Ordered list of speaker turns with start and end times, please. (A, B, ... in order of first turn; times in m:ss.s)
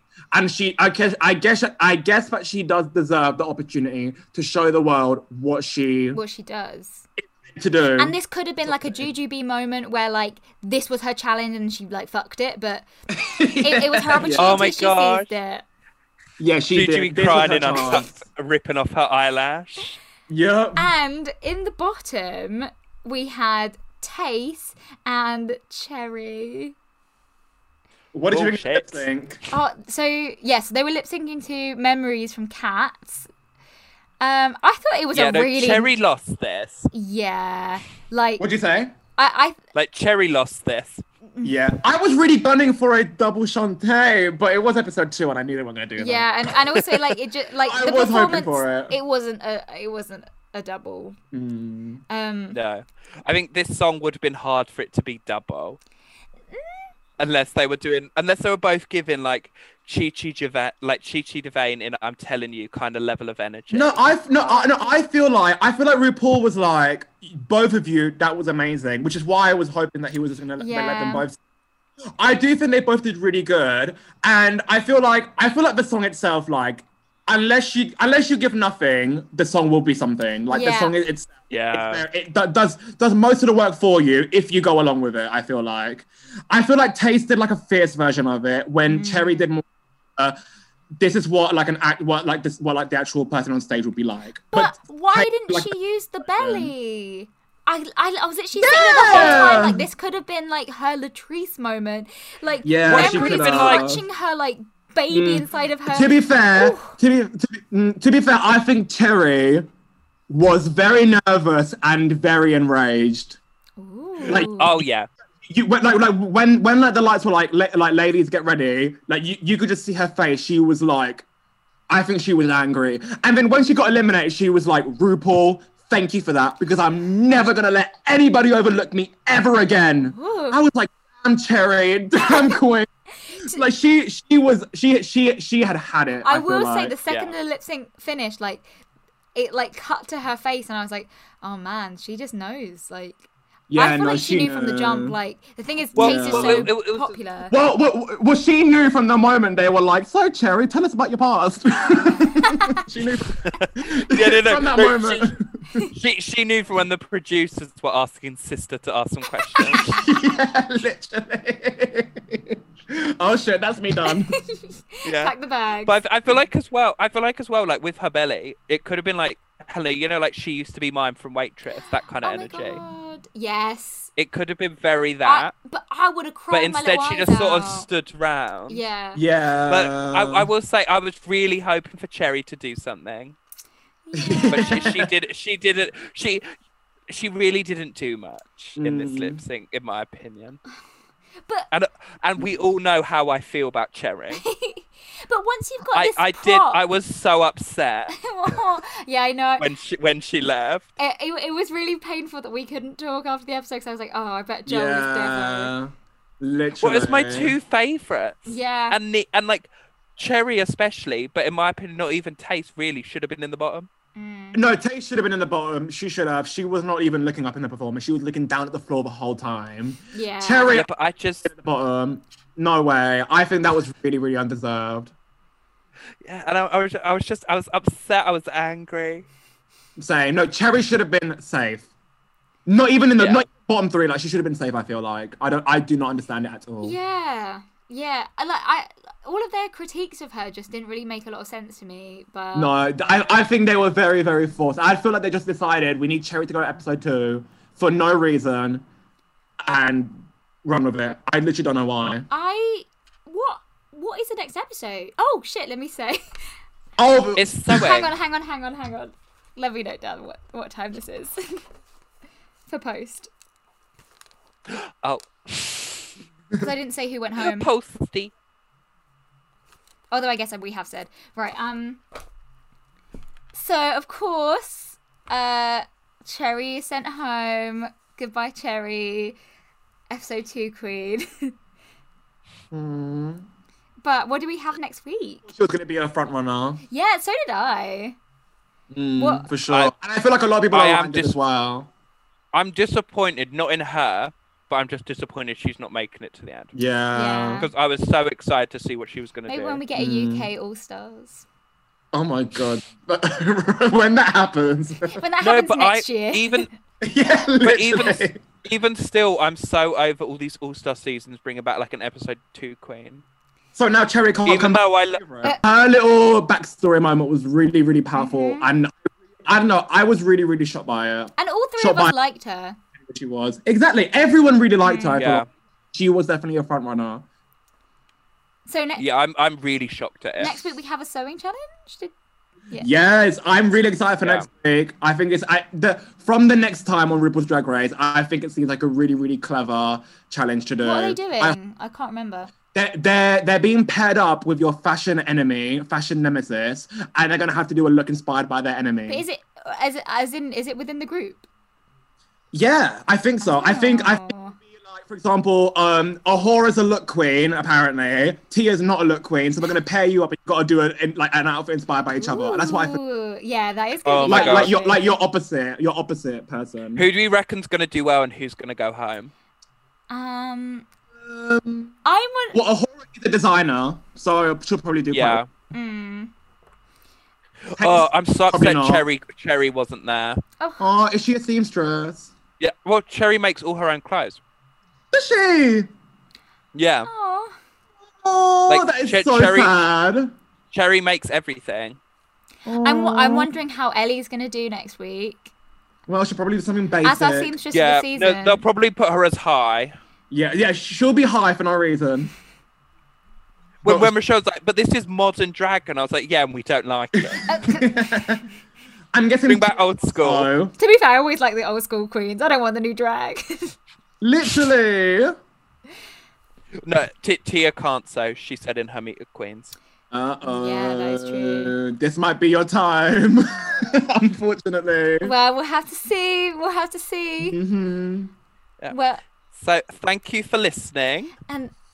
0:00.3-0:06.2 A
0:06.1-0:07.1 B
0:07.3-0:08.2 A
0:08.0-0:12.9 B
0:08.7-0:09.0 A
0:13.2-0:14.7 A
0:13.6-0:15.6 B
0:14.4-0:15.3 C
0:16.4-0:18.1 A
0:16.7-0:20.0 C
0:17.7-0:18.0 B
0:20.3-0:20.9 A
0:20.8-0:26.8 B
0:28.1-0:29.4 A
0:28.3-0:29.1 C
0:29.5-0:33.3 B
0:34.2-0:35.9 B
0:35.1-0:36.9 C
0:36.9-0:38.4 B
0:38.4-0:38.9 A
0:39.2-0:39.6 B
0:39.7-0:41.0 C
0:41.4-0:46.3 A
0:46.0-0:51.2 B
0:47.6-0:49.0 A
0:51.3-0:52.0 A
0:52.1-0:52.6 B
0:52.5-0:55.8 C
0:56.5-0:56.9 B
0:57.2-1:04.0 C
1:03.7-1:11.4 A
1:04.4-1:04.9 B
1:10.6-1:11.3 B
1:12.2-1:29.6 A
1:20.5-1:21.0 B
1:21.5-1:22.0 C
1:28.9-1:29.4 B
1:31.0-1:35.7 A
1:34.5-1:47.0 B
1:36.2-1:36.7 A
1:38.5-1:39.9 A
1:39.1-1:39.7 C
1:42.6-1:44.0 A
1:42.9-1:43.9 C
1:45.1-1:49.7 A
1:50.3-1:53.4 A
1:53.8-1:54.8 B
1:54.2-1:54.5 A
1:54.2-1:55.1 C
1:55.4-2:01.2 A
2:01.9-2:12.9 A
2:10.1-2:10.6 B
2:12.2-2:12.6 B
2:13.3-2:13.6 B
2:13.5-2:17.0 A
2:16.2-2:18.7 B
2:17.1-2:17.4 C
2:19.4-2:27.6 B
2:23.7-2:25.2 A
2:25.9-2:26.7 A
2:26.0-2:27.2 C
2:27.5-2:35.8 A
2:32.4-2:32.7 B
2:33.4-2:35.3 C
2:35.9-2:40.0 C
2:39.7-2:44.4 A
2:44.1-2:46.0 B
2:45.0-2:45.3 C
2:45.9-2:52.8 C
2:52.2-2:54.1 B
2:54.2-2:55.5 C
2:55.2-2:57.9 B
2:56.5-2:58.8 C
2:58.7-2:59.2 B
2:59.2-3:00.5 A
2:59.7-3:03.4 C
3:04.1-3:05.0 B
3:04.2-3:05.1 A
3:04.5-3:06.4 C
3:07.1-3:10.6 C
3:08.8-3:09.4 A
3:11.7-3:14.4 C
3:14.3-3:16.8 B
3:15.9-3:18.2 C
3:18.1-3:19.7 B
3:19.6-3:20.9 C
3:21.0-3:25.7 B
3:24.7-3:27.5 A
3:26.8-3:33.9 C
3:28.5-3:29.0 B
3:34.2-3:34.6 B
3:34.5-3:40.9 A
3:40.1-3:40.8 B
3:40.7-3:41.5 C
3:41.4-3:45.1 A
3:46.2-3:49.3 C
3:50.0-3:51.9 A
3:52.7-3:57.0 A
3:53.2-3:53.5 C
3:56.8-4:02.7 B
4:02.5-4:08.8 A
4:09.6-4:12.3 A
4:12.3-4:16.2 B
4:17.0-4:17.9 A
4:17.4-4:18.1 C
4:17.7-4:21.6 B
4:22.7-4:23.3 B
4:24.7-4:26.2 C
4:26.6-4:27.7 B
4:27.4-4:28.3 C
4:30.1-4:32.0 B
4:33.5-4:39.4 B
4:40.1-4:41.5 B
4:42.7-4:43.5 A
4:44.0-4:45.4 B
4:45.5-4:46.8 A
4:46.9-4:48.2 B
4:48.9-4:51.9 A
4:49.2-4:49.5 B
4:50.7-4:51.4 C
4:52.5-4:56.7 C
4:56.7-4:57.6 A
4:57.1-4:57.7 B
4:57.6-4:59.8 C
4:59.5-5:01.4 B
5:00.0-5:00.5 A
5:02.1-5:05.2 A
5:05.1-5:06.7 B
5:05.4-5:06.7 C
5:07.0-5:08.4 A
5:07.6-5:13.2 C
5:13.8-5:22.1 A
5:14.5-5:15.2 C
5:18.2-5:18.7 B
5:21.4-5:22.8 B
5:23.1-5:27.2 A
5:24.8-5:25.2 B
5:25.2-5:25.5 C
5:28.7-5:29.0 B
5:29.0-5:30.6 C
5:30.4-5:32.1 B
5:32.8-5:41.6 A
5:34.2-5:34.5 C
5:40.8-5:42.5 B
5:42.7-5:49.2 A
5:49.1-5:51.4 B
5:52.5-6:03.0 A
5:53.4-5:54.6 B
6:02.2-6:05.0 B
6:04.0-6:04.7 C
6:04.2-6:07.1 A
6:07.0-6:09.3 C
6:10.1-6:10.9 B
6:11.2-6:12.0 A
6:12.0-6:12.6 B
6:12.5-6:15.4 A
6:15.1-6:15.5 C
6:15.7-6:16.3 B
6:17.7-6:20.4 C
6:17.8-6:19.0 A
6:20.6-6:20.8 B
6:20.8-6:22.3 A
6:22.6-6:24.4 C
6:25.1-6:25.9 A
6:26.8-6:27.1 C
6:27.0-6:27.6 B
6:28.2-6:30.3 A
6:28.7-6:29.7 C
6:30.7-6:32.0 C
6:32.7-6:33.5 A
6:32.8-6:35.5 B
6:36.1-6:37.5 A
6:37.0-6:38.6 B
6:37.7-6:40.0 C
6:40.3-6:42.3 A
6:43.8-6:44.1 A
6:43.8-6:47.5 C
6:47.2-6:48.4 A
6:47.5-6:48.0 B
6:49.1-6:50.7 A
6:49.5-6:50.5 C
6:50.8-6:53.8 B
6:54.2-6:55.4 A
6:56.8-6:59.8 C
7:00.1-7:05.3 A
7:00.4-7:01.8 B
7:05.2-7:07.6 B
7:07.5-7:08.3 A
7:08.9-7:09.2 B
7:09.5-7:11.3 C
7:11.5-7:11.7 B